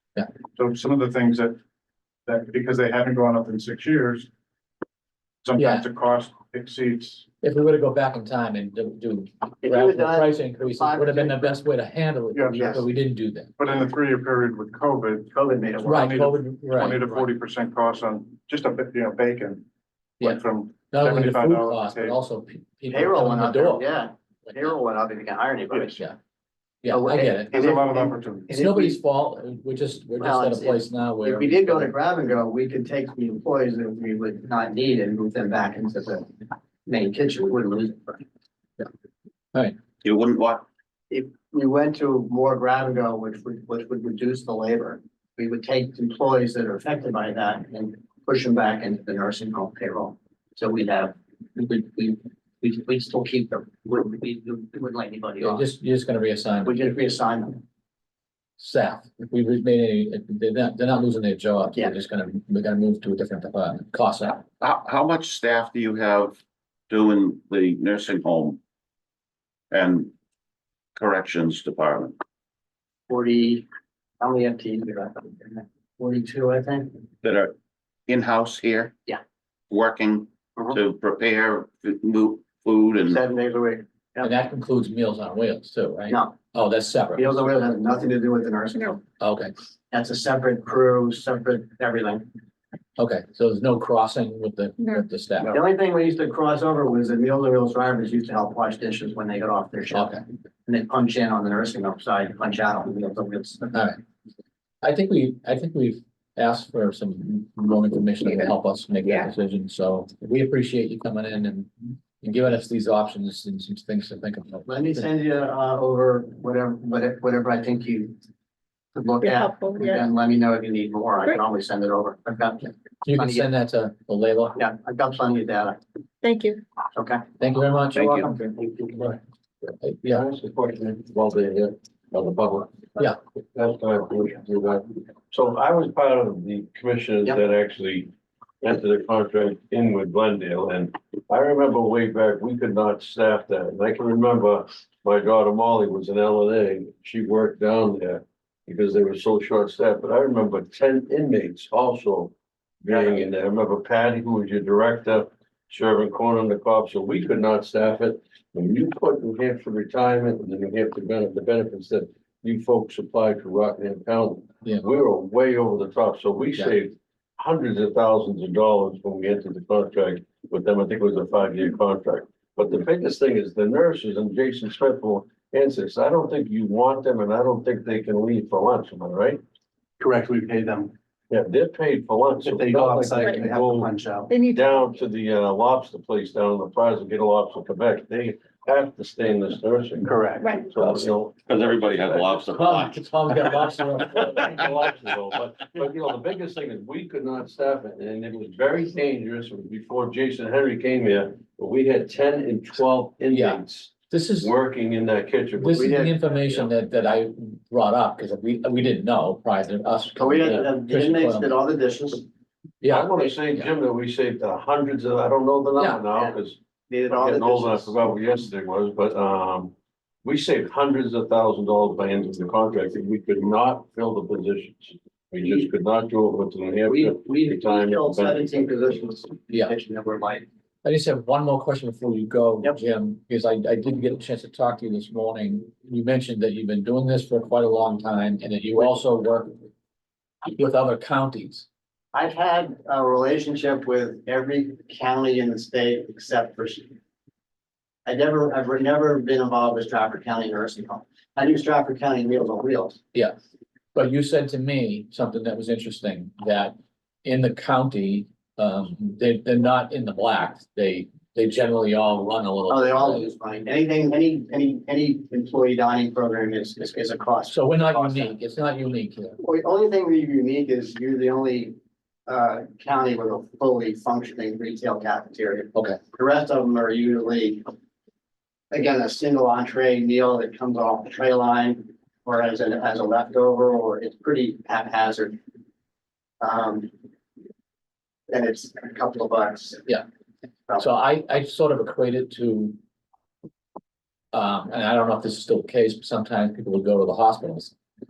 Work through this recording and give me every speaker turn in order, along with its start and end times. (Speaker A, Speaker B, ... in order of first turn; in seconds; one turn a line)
Speaker A: 0.6-1.6
Speaker A: 2.3-4.3
Speaker A: 5.4-7.3
Speaker B: 5.6-5.9
Speaker B: 7.4-13.5
Speaker C: 9.6-11.6
Speaker A: 12.3-12.8
Speaker C: 12.6-12.8
Speaker A: 13.6-19.6
Speaker C: 15.3-16.1
Speaker B: 15.8-17.3
Speaker A: 20.2-22.2
Speaker B: 20.2-23.9
Speaker C: 22.9-26.0
Speaker B: 26.8-27.6
Speaker C: 26.9-29.0
Speaker A: 27.5-28.5
Speaker B: 28.5-31.9
Speaker C: 30.2-36.3
Speaker C: 36.9-38.2
Speaker D: 40.0-40.7
Speaker C: 41.1-55.7
Speaker B: 55.4-56.9
Speaker C: 56.6-57.6
Speaker B: 58.6-64.5
Speaker D: 64.6-68.6
Speaker D: 69.7-70.1
Speaker D: 71.0-72.2
Speaker C: 73.1-73.7
Speaker C: 74.2-76.9
Speaker D: 77.2-77.5
Speaker D: 78.1-79.0
Speaker D: 79.7-83.2
Speaker C: 83.1-84.3
Speaker B: 84.2-87.7
Speaker C: 86.1-86.3
Speaker C: 87.2-89.0
Speaker B: 89.2-89.5
Speaker C: 89.9-92.3
Speaker B: 93.0-95.6
Speaker C: 95.5-103.8
Speaker B: 99.9-100.2
Speaker B: 103.7-104.0
Speaker B: 104.8-115.0
Speaker C: 114.7-118.2
Speaker C: 119.0-123.5
Speaker E: 119.2-120.1
Speaker B: 123.0-124.6
Speaker C: 124.6-125.8
Speaker E: 126.2-126.6
Speaker C: 127.0-127.2
Speaker B: 127.4-128.3
Speaker C: 127.9-129.2
Speaker B: 129.8-130.2
Speaker F: 130.0-138.1
Speaker F: 138.6-179.4
Speaker C: 180.0-180.9
Speaker F: 181.3-183.9
Speaker C: 182.4-184.3
Speaker E: 184.3-184.8
Speaker F: 184.5-190.2
Speaker C: 190.0-190.5
Speaker E: 190.4-190.7
Speaker F: 190.7-192.5
Speaker D: 190.8-195.1
Speaker B: 192.5-194.5
Speaker F: 194.0-205.9
Speaker B: 203.3-204.5
Speaker B: 205.6-211.6
Speaker C: 205.7-206.1
Speaker C: 210.2-212.3
Speaker B: 212.8-213.7
Speaker F: 212.9-216.6
Speaker C: 216.1-216.4
Speaker C: 216.9-218.0
Speaker F: 217.1-228.9
Speaker C: 226.9-230.4
Speaker B: 230.8-239.7
Speaker B: 240.5-241.7
Speaker C: 242.1-246.9
Speaker C: 248.1-253.0
Speaker B: 253.9-263.3
Speaker C: 262.7-268.4
Speaker B: 267.5-269.4
Speaker C: 269.4-271.8
Speaker C: 272.3-277.7
Speaker C: 278.7-285.4
Speaker C: 286.4-286.9
Speaker C: 288.3-289.9
Speaker B: 290.8-292.8
Speaker B: 294.3-297.7